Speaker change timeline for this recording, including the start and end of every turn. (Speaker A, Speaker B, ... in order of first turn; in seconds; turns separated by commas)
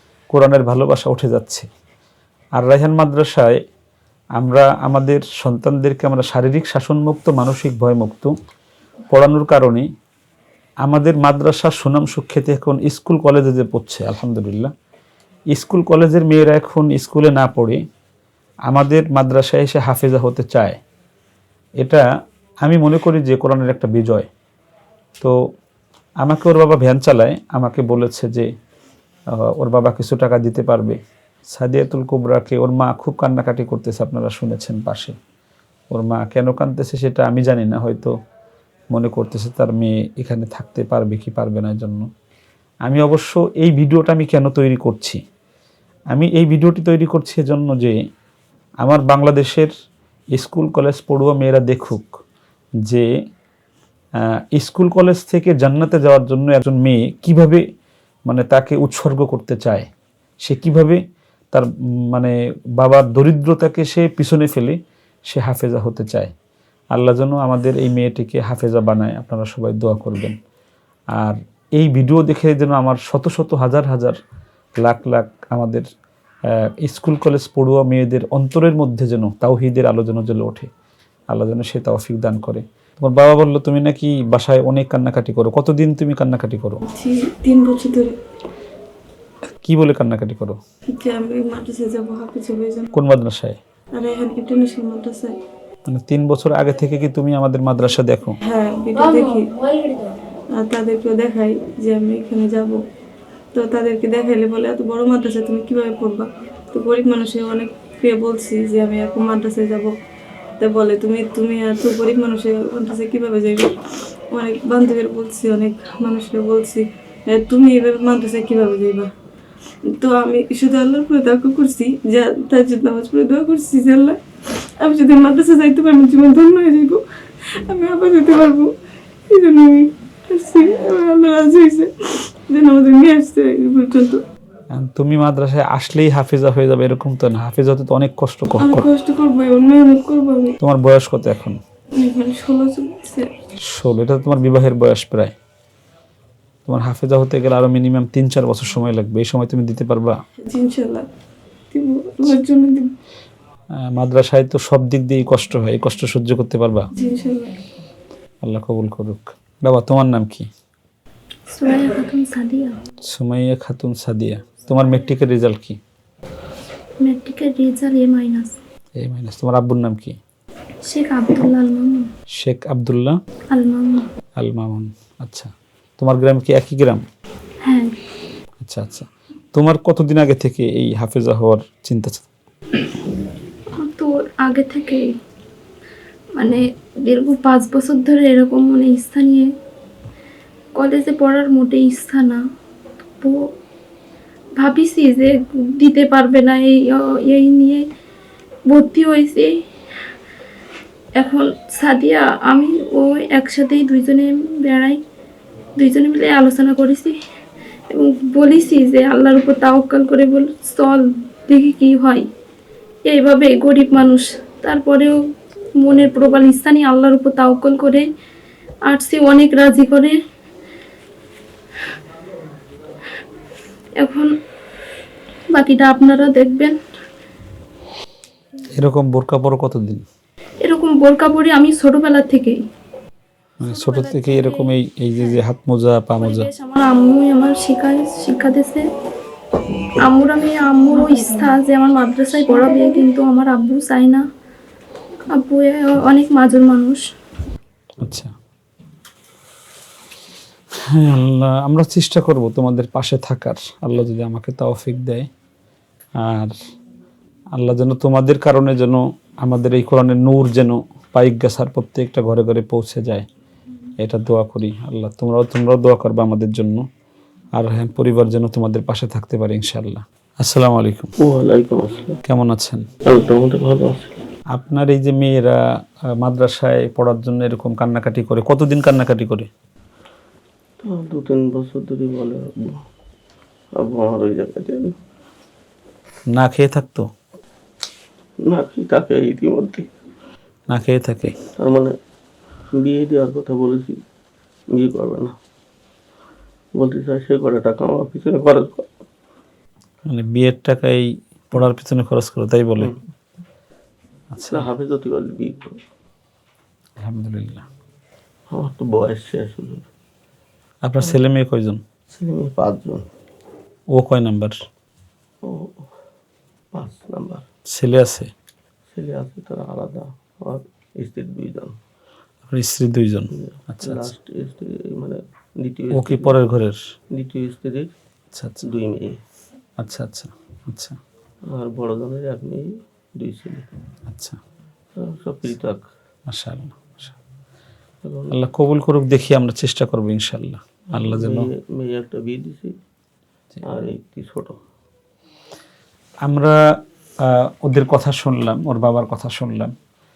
Speaker A: 0.3-1.6, Speaker A: 2.5-3.6, Speaker A: 4.3-8.3, Speaker A: 9.1-9.9, Speaker A: 10.8-14.7, Speaker A: 15.5-17.8, Speaker A: 18.7-20.8, Speaker A: 21.8-22.1, Speaker A: 22.6-24.3, Speaker A: 26.2-28.5, Speaker A: 29.4-31.0, Speaker A: 31.5-35.1, Speaker A: 35.9-38.1, Speaker A: 38.9-42.1, Speaker A: 42.8-45.2, Speaker A: 46.1-48.0, Speaker A: 48.8-49.7, Speaker A: 50.3-52.1, Speaker A: 54.5-57.6, Speaker A: 58.3-59.9, Speaker A: 60.4-66.3, Speaker A: 66.9-70.3, Speaker A: 71.1-74.2, Speaker A: 74.8-75.8, Speaker A: 76.6-80.7, Speaker A: 81.3-86.8, Speaker B: 86.9-88.2, Speaker A: 89.6-90.6, Speaker B: 90.9-92.9, Speaker A: 92.9-93.6, Speaker B: 93.9-95.3, Speaker A: 95.9-98.4, Speaker B: 98.4-99.5, Speaker C: 99.0-100.2, Speaker B: 100.5-102.8, Speaker B: 103.5-109.9, Speaker B: 110.6-113.7, Speaker B: 114.3-119.1, Speaker B: 119.9-127.0, Speaker B: 127.6-128.7, Speaker B: 129.3-134.2, Speaker A: 134.7-138.8, Speaker B: 138.6-140.6, Speaker A: 140.6-141.6, Speaker B: 141.9-143.3, Speaker A: 143.7-145.3, Speaker A: 146.7-150.2, Speaker B: 150.4-151.1, Speaker B: 151.7-152.9, Speaker A: 153.8-156.9, Speaker B: 156.9-157.6, Speaker A: 158.4-160.5, Speaker C: 161.5-162.8, Speaker A: 163.1-165.8, Speaker C: 167.0-168.5, Speaker A: 169.0-170.2, Speaker C: 170.8-172.1, Speaker A: 172.3-173.2, Speaker C: 173.5-174.1, Speaker A: 174.4-177.0, Speaker C: 177.6-178.0, Speaker A: 178.6-182.2, Speaker C: 183.8-185.1, Speaker C: 186.3-189.5, Speaker C: 190.7-192.4, Speaker C: 194.6-197.8, Speaker C: 198.7-199.5, Speaker C: 201.2-205.0, Speaker C: 205.8-207.1, Speaker C: 207.9-212.2, Speaker C: 213.1-215.2, Speaker C: 215.8-218.1, Speaker C: 218.8-220.1, Speaker C: 224.0-224.3, Speaker C: 225.5-226.7, Speaker A: 228.7-230.0, Speaker C: 230.6-232.6, Speaker A: 233.6-236.5, Speaker C: 233.6-234.8, Speaker C: 236.2-238.8, Speaker C: 240.0-244.2, Speaker C: 245.3-247.0, Speaker A: 248.0-248.3, Speaker A: 250.9-255.3, Speaker A: 256.2-256.6, Speaker A: 257.5-263.2, Speaker A: 264.0-266.9, Speaker A: 267.6-271.1, Speaker D: 271.2-272.2, Speaker A: 272.2-272.9, Speaker D: 273.1-274.1, Speaker A: 274.5-275.6, Speaker A: 276.2-279.5, Speaker D: 280.8-282.8, Speaker D: 283.8-284.9, Speaker A: 286.3-287.1, Speaker D: 288.4-289.9, Speaker A: 290.7-291.3, Speaker D: 291.6-291.9, Speaker D: 292.7-294.0, Speaker D: 294.7-295.3, Speaker D: 296.8-298.9, Speaker A: 300.1-302.9, Speaker A: 304.3-304.7, Speaker D: 304.5-305.8, Speaker A: 307.0-307.6, Speaker D: 308.5-309.9, Speaker A: 310.8-311.8, Speaker D: 312.1-313.0, Speaker A: 313.9-314.6, Speaker D: 315.4-315.9, Speaker D: 316.7-317.4, Speaker A: 317.7-318.3, Speaker D: 318.9-321.7, Speaker A: 322.5-324.1, Speaker D: 323.3-326.4, Speaker A: 325.9-326.8, Speaker D: 327.1-327.9, Speaker A: 328.3-328.6, Speaker D: 328.6-329.2, Speaker A: 329.8-331.0, Speaker D: 331.5-333.6, Speaker A: 334.1-334.4, Speaker D: 335.0-335.8, Speaker A: 336.3-337.1, Speaker D: 338.0-338.3, Speaker A: 338.3-341.5, Speaker D: 341.0-342.7, Speaker D: 343.6-344.6, Speaker A: 346.2-346.6, Speaker A: 347.2-349.7